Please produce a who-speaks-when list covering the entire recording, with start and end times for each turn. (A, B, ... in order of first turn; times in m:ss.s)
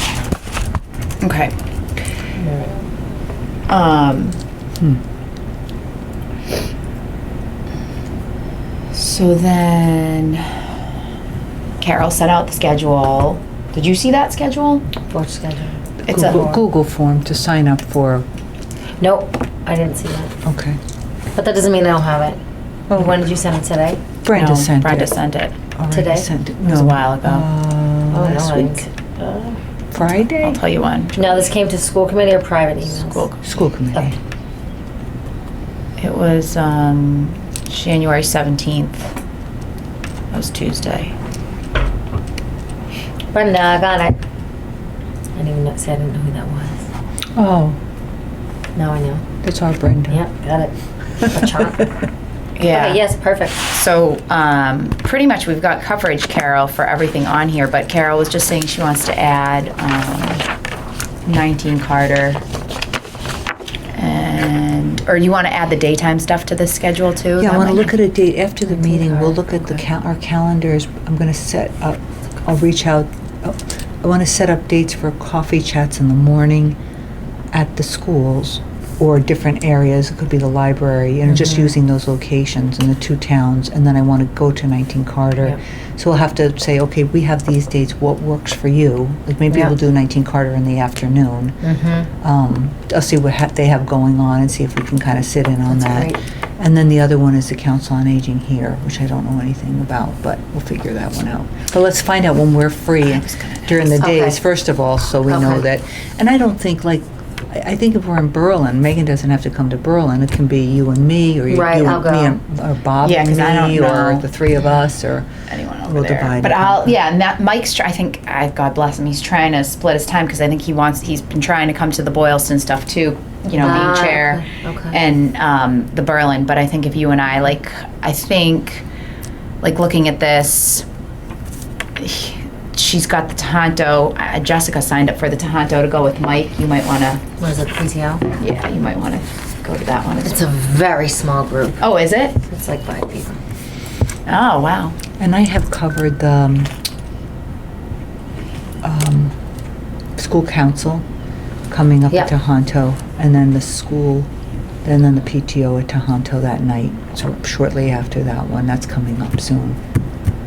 0:01.2-0:01.6 A
0:02.4-0:02.7 B
0:03.7-0:04.4 A
0:08.9-0:10.6 A
0:11.8-0:14.8 A
0:15.1-0:16.5 B
0:16.0-0:18.2 C
0:16.1-0:16.5 A
0:19.0-0:20.3 B
0:20.4-0:20.8 C
0:21.3-0:24.0 B
0:22.9-0:23.2 C
0:24.2-0:25.1 C
0:24.3-0:25.6 A
0:25.8-0:28.8 C
0:25.9-0:26.3 B
0:26.5-0:27.5 A
0:28.1-0:29.6 B
0:29.9-0:30.6 C
0:30.4-0:31.4 A
0:31.2-0:33.3 B
0:32.9-0:33.4 A
0:33.4-0:34.2 C
0:36.0-0:39.1 A
0:40.3-0:41.2 A
0:43.3-0:44.2 B
0:45.4-0:46.8 B
0:47.4-0:47.8 C
0:48.8-0:49.2 B
0:49.4-0:50.2 C
0:50.1-0:51.9 B
0:52.6-1:00.4 A
0:52.6-0:53.6 B
1:01.2-1:02.4 A
1:03.9-1:07.9 A
1:07.4-1:16.8 C
1:08.8-1:09.5 B
1:17.5-1:31.6 C
1:21.3-1:21.7 B
1:31.6-1:32.1 B
1:32.2-1:55.3 C
1:35.7-1:36.2 B
1:43.1-1:44.0 A
1:44.0-1:44.4 B
1:45.3-1:45.6 B
1:51.5-1:52.4 B
1:53.0-1:54.3 A
1:55.5-2:08.8 A
1:55.9-1:57.0 C
2:03.6-2:05.0 B
2:09.6-2:10.8 A
2:12.0-2:17.2 A
2:17.4-2:18.2 B
2:18.4-2:20.5 A
2:20.2-2:21.9 B
2:21.8-2:22.4 A
2:22.4-2:23.4 B
2:24.3-2:25.0 A
2:25.2-2:26.7 C
2:28.8-2:29.4 C
2:30.2-2:31.0 C
2:31.7-2:34.3 C
2:34.8-2:39.8 C